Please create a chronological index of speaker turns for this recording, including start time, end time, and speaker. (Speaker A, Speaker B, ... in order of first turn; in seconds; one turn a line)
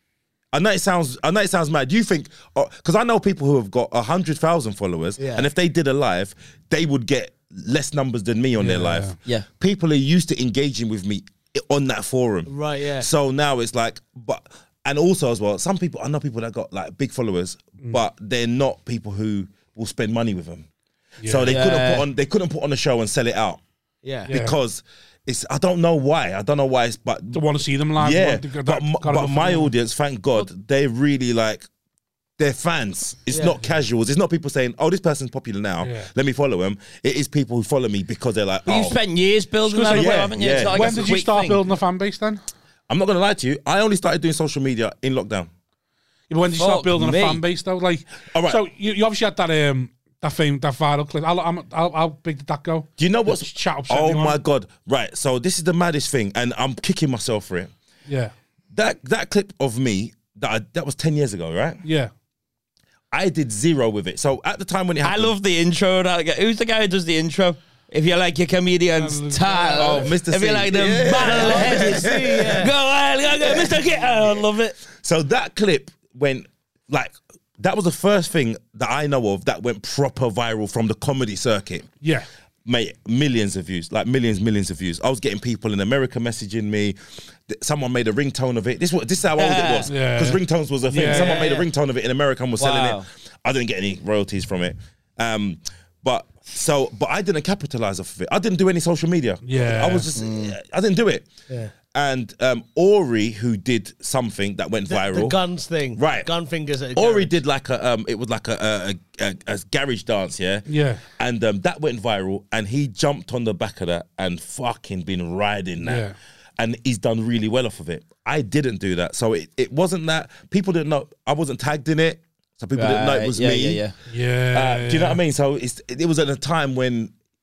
Speaker A: 0.5-20.7
Speaker B: 5.2-5.5
Speaker C: 8.6-9.2
Speaker B: 12.5-13.1
Speaker C: 21.2-21.6
Speaker A: 21.2-23.6
Speaker D: 21.4-22.1
Speaker B: 24.0-24.3
Speaker C: 24.3-24.6
Speaker A: 24.3-27.4
Speaker C: 27.3-29.7
Speaker A: 28.0-31.7
Speaker A: 32.4-39.0
Speaker B: 33.3-33.6
Speaker C: 35.8-36.1
Speaker D: 38.7-41.6
Speaker C: 39.7-42.4
Speaker A: 39.9-41.1
Speaker A: 42.9-45.5
Speaker C: 46.3-54.4
Speaker D: 46.6-47.4
Speaker A: 48.3-48.6
Speaker A: 53.0-57.7
Speaker C: 58.1-58.3
Speaker A: 58.7-61.8
Speaker C: 61.8-62.1
Speaker A: 63.1-65.4
Speaker D: 65.0-74.8
Speaker C: 69.0-70.1
Speaker A: 69.8-72.7
Speaker B: 71.0-72.7
Speaker A: 73.4-73.8
Speaker A: 74.9-81.9
Speaker C: 82.0-82.3
Speaker A: 82.7-101.3
Speaker D: 89.4-89.9
Speaker C: 89.9-91.5
Speaker B: 91.0-91.7
Speaker D: 92.6-93.0
Speaker C: 99.5-100.1
Speaker D: 100.2-100.5
Speaker A: 101.9-105.4
Speaker B: 104.9-107.3
Speaker A: 106.0-106.3
Speaker A: 107.0-116.0
Speaker C: 110.7-111.0
Speaker C: 115.8-116.2
Speaker A: 116.6-123.8
Speaker D: 122.8-123.9
Speaker C: 124.1-125.2
Speaker A: 124.5-127.1